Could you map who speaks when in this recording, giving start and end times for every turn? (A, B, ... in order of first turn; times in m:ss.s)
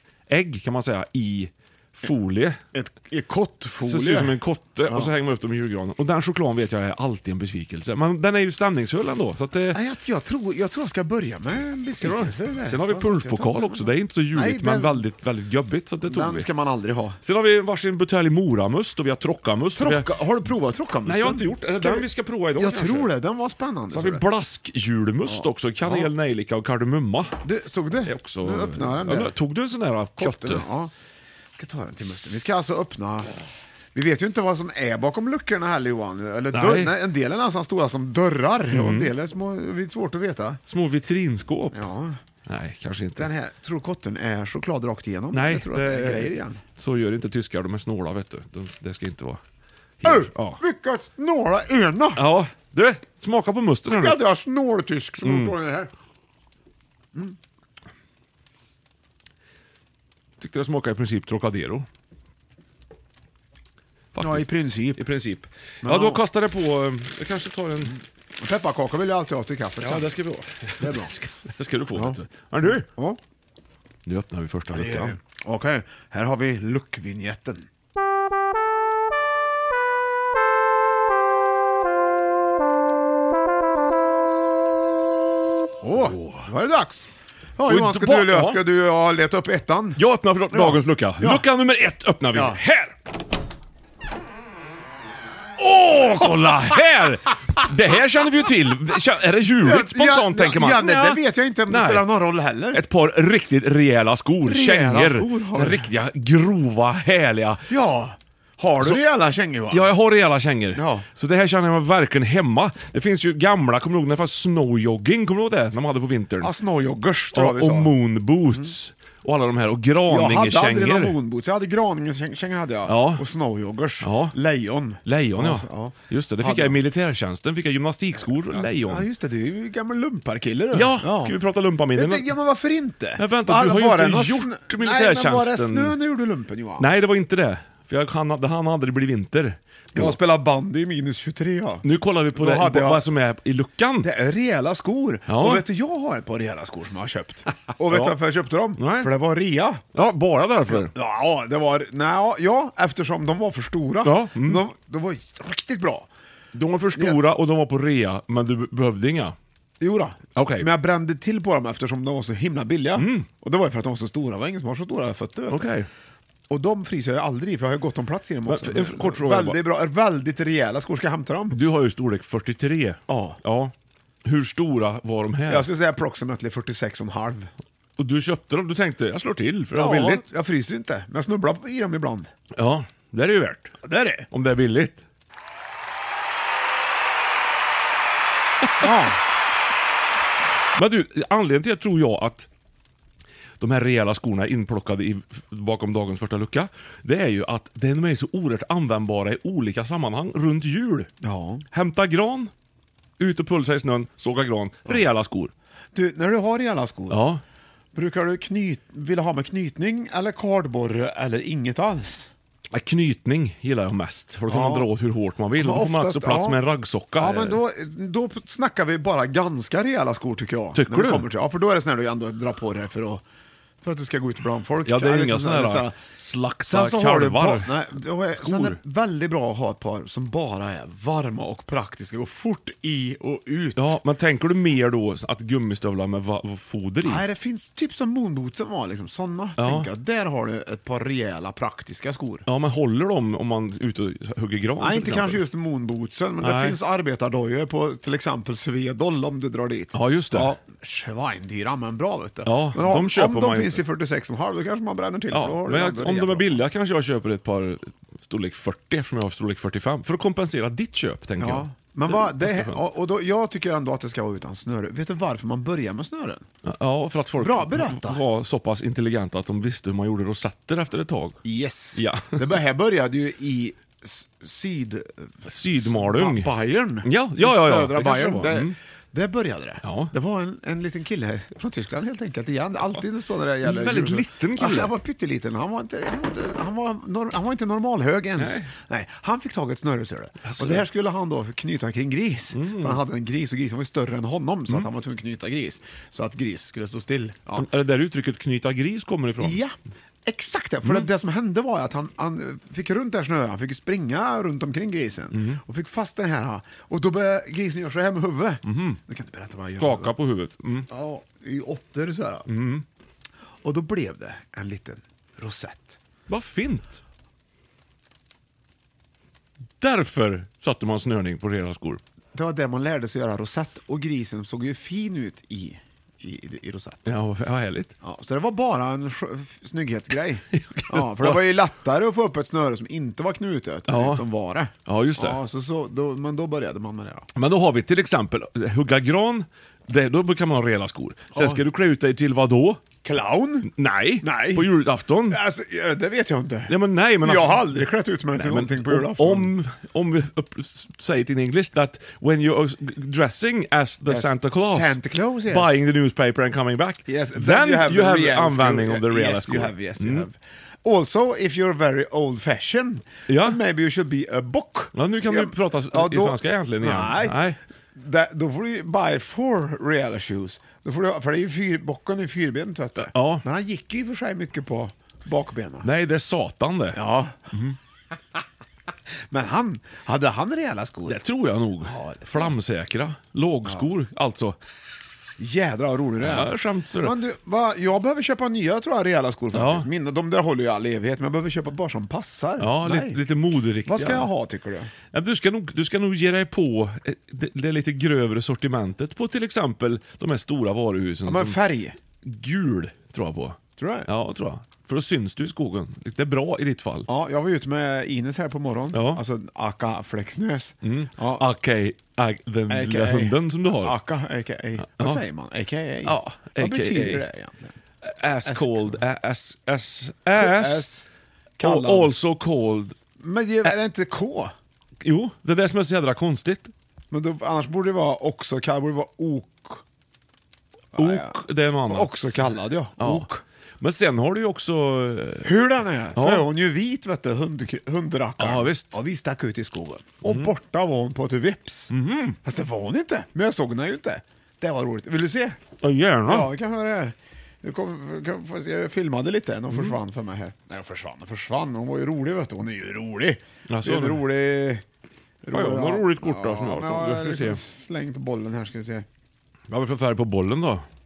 0:00.3-0:02.6 A
0:02.7-0:05.1 B
0:03.8-0:09.8 A
0:09.7-0:15.1 B
0:12.0-0:16.5 A
0:16.0-0:17.2 B
0:17.2-0:20.1 A
0:19.8-0:24.2 B
0:21.0-0:23.1 A
0:23.9-0:27.4 A
0:25.2-0:26.1 B
0:27.4-0:29.4 B
0:28.0-0:30.6 A
0:30.2-0:30.9 B
0:31.6-0:33.4 B
0:33.9-0:40.6 B
0:36.5-0:36.9 A
0:38.7-0:39.1 A
0:40.7-0:41.8 A
0:41.7-0:42.2 B
0:42.5-0:43.3 A
0:43.2-0:46.6 B
0:45.3-0:49.4 A
0:50.0-0:50.6 A
0:50.0-0:52.2 B
0:52.2-0:54.2 A
0:53.9-0:55.9 B
0:55.2-0:55.5 A
1:00.4-1:01.9 A
1:04.1-1:08.0 A
1:04.2-1:05.0 B
1:05.8-1:06.2 B
1:08.4-1:10.1 B
1:09.8-1:12.9 A
1:10.8-1:11.2 B
1:11.9-1:13.2 B
1:14.1-1:15.2 A
1:14.7-1:17.7 B
1:25.8-1:31.5 B
1:27.7-1:28.6 A
1:30.0-1:33.0 A
1:32.3-1:32.6 B
1:35.6-1:42.0 A
1:39.6-1:42.8 B
1:42.7-1:47.6 A
1:44.4-1:45.9 B
1:47.7-1:49.9 B
1:49.7-1:56.5 A
1:50.7-1:51.1 B
1:56.4-1:57.9 B
1:57.3-2:01.2 A
2:00.1-2:06.8 B
2:02.9-2:03.2 A
2:04.0-2:04.4 A
2:05.0-2:09.1 A
2:08.5-2:11.4 B
2:10.7-2:12.3 A
2:11.9-2:16.9 B
2:13.2-2:16.0 A
2:16.8-2:20.2 A
2:19.9-2:23.1 B
2:21.8-2:24.1 A
2:24.0-2:29.8 B
2:25.3-2:25.6 A
2:27.9-2:28.2 A
2:28.8-2:29.1 A
2:29.9-2:30.9 A
2:30.7-2:36.1 B
2:34.0-2:34.6 A
2:36.5-2:39.4 A
2:37.0-2:37.2 B
2:39.8-2:45.7 B
2:40.4-2:40.7 A
2:43.0-2:43.3 A
2:45.5-2:45.9 A
2:46.5-2:51.6 B
2:48.5-2:49.6 A
2:51.5-2:53.7 A
2:53.1-2:53.4 B
2:54.2-2:55.7 A
2:55.5-2:57.5 B
2:58.0-3:00.2 A
2:59.7-3:02.3 B
3:02.5-3:03.7 A
3:03.8-3:04.3 B
3:04.3-3:05.0 A
3:08.8-3:09.2 B
3:10.8-3:12.5 A
3:13.6-3:21.1 A
3:21.2-3:21.6 B
3:21.7-3:22.5 A
3:23.2-3:25.5 A
3:25.9-3:27.3 B
3:27.1-3:27.4 A
3:27.9-3:32.3 B
3:32.7-3:37.6 A
3:34.5-3:34.9 B
3:35.6-3:36.6 B
3:37.2-3:43.2 B
3:40.8-3:41.2 A
3:43.8-3:46.0 B
3:44.8-3:47.7 A
3:46.6-3:54.0 B
3:48.3-3:48.8 A
3:53.8-3:57.2 A
3:57.0-4:02.4 B
3:59.6-3:59.9 A
4:02.5-4:05.4 A
4:04.8-4:16.6 B
4:06.4-4:06.8 A
4:09.9-4:10.5 A
4:12.4-4:13.8 A
4:15.3-4:22.8 A
4:21.4-4:26.5 B
4:26.6-4:31.4 A
4:27.4-4:28.2 B
4:31.4-4:57.6 B
4:31.9-4:32.4 A
4:35.5-4:36.5 A
4:37.0-4:38.8 A
4:39.8-4:40.1 A
4:43.6-4:44.9 A
4:48.4-4:48.7 A
4:50.4-4:50.8 A
4:52.5-4:53.0 A
4:57.6-4:59.6 A
4:59.4-5:10.1 B
5:00.8-5:01.1 A
5:05.3-5:05.6 A
5:08.7-5:09.0 A
5:09.8-5:10.9 A
5:10.9-5:12.5 B
5:12.5-5:12.8 A
5:13.6-5:16.0 B
5:16.3-5:17.0 A
5:19.8-5:22.0 A
5:22.3-5:27.0 B
5:27.1-5:27.9 A
5:28.0-5:37.3 B
5:30.5-5:31.4 A
5:33.9-5:34.2 A
5:34.9-5:35.4 A
5:37.4-5:42.8 A
5:41.3-5:41.6 B
5:43.0-5:43.7 B
5:43.7-5:45.4 A
5:44.2-5:44.7 B
5:45.3-5:49.5 B
5:46.7-5:47.9 A
5:48.4-6:00.3 A
5:54.1-5:55.8 B
5:57.1-6:07.4 B
6:03.3-6:03.6 A
6:04.9-6:07.6 A
6:07.9-6:15.9 B
6:13.1-6:13.4 A
6:15.8-6:17.0 A
6:16.9-6:17.4 B
6:19.3-6:21.2 B
6:21.1-6:24.6 A
6:21.8-6:22.6 B
6:25.4-6:33.2 B
6:26.2-6:27.1 A
6:29.5-6:29.9 A
6:32.6-6:34.3 A
6:33.8-6:34.9 B
6:35.1-6:41.6 A
6:41.2-6:42.0 B
6:42.2-6:47.1 A
6:43.8-6:44.1 B
6:47.1-6:51.5 B
6:48.9-6:49.2 A
6:50.8-6:53.9 A
6:52.7-6:57.7 B
6:54.8-6:55.2 A
6:56.0-6:57.2 A
6:58.0-7:00.9 A
6:58.4-6:59.0 B
7:00.3-7:01.1 B
7:01.6-7:02.1 B
7:01.6-7:03.0 A
7:03.2-7:04.5 B
7:05.0-7:06.7 A
7:07.1-7:09.8 B
7:11.0-7:13.4 B
7:11.0-7:13.3 A
7:13.8-7:15.5 A
7:15.4-7:21.9 B
7:16.2-7:16.5 A
7:18.4-7:19.0 A
7:20.2-7:20.5 A
7:21.9-7:22.4 A
7:22.4-7:25.6 B
7:25.8-7:26.5 A
7:26.3-7:34.8 B
7:29.7-7:30.0 A
7:33.7-7:34.2 A
7:35.4-7:39.0 B
7:35.5-7:37.6 A
7:39.7-7:40.8 A